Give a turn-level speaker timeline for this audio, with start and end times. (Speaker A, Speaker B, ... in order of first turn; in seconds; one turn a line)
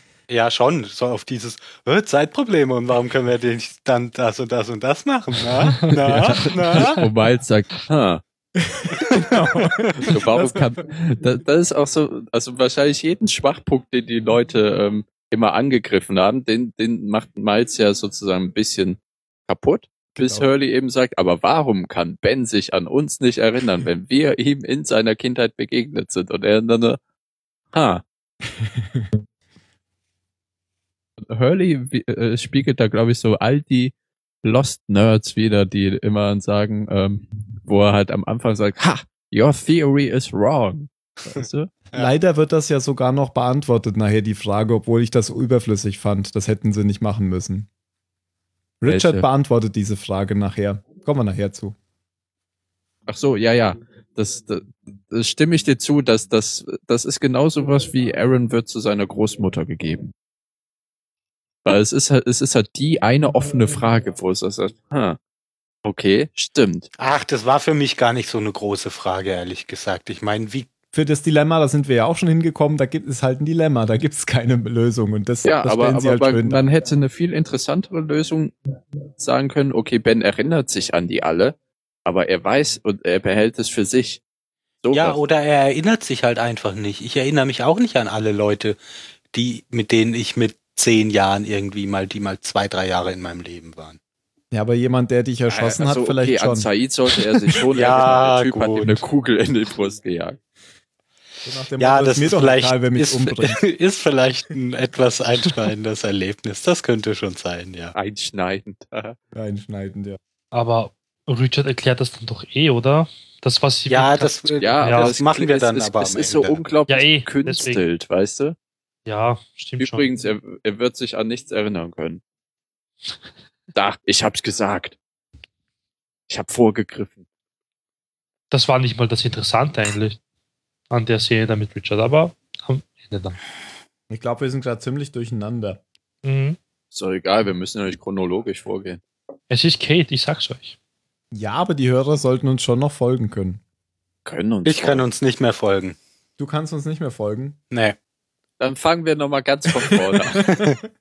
Speaker A: 0.3-7.0
Speaker B: 5.8-8.2
Speaker C: 8.6-10.7
Speaker A: 9.0-10.1
Speaker B: 10.0-27.0
Speaker B: 27.7-28.0
Speaker C: 28.6-29.1
Speaker B: 31.2-41.7
Speaker C: 41.9-47.7
Speaker C: 48.8-51.8
Speaker B: 48.9-49.2
Speaker B: 53.1-60.1
Speaker B: 61.6-65.2
Speaker B: 65.8-66.9
Speaker A: 67.0-70.7
Speaker C: 70.9-76.6
Speaker B: 75.5-78.5
Speaker B: 79.2-84.2
Speaker B: 84.8-85.2
Speaker A: 84.9-88.8
Speaker A: 89.3-94.0
Speaker C: 94.5-96.7
Speaker B: 95.5-100.4
Speaker A: 97.7-99.0
Speaker C: 101.4-103.6
Speaker A: 101.8-108.0
Speaker B: 108.0-109.2
Speaker C: 109.3-110.2
Speaker D: 110.5-115.1
Speaker A: 113.9-116.6
Speaker B: 114.6-118.6
Speaker D: 116.9-117.8
Speaker D: 119.1-120.0
Speaker B: 119.8-122.2
Speaker B: 123.7-125.0
Speaker B: 126.3-127.2
Speaker D: 128.5-130.2
Speaker D: 130.9-133.4
Speaker C: 134.1-135.8
Speaker D: 136.2-136.6
Speaker B: 136.9-139.0
Speaker D: 139.5-140.8
Speaker C: 141.3-143.6
Speaker B: 144.2-145.1
Speaker A: 144.7-146.0
Speaker C: 146.4-147.6
Speaker A: 147.7-148.0
Speaker B: 148.6-150.6
Speaker A: 149.8-150.8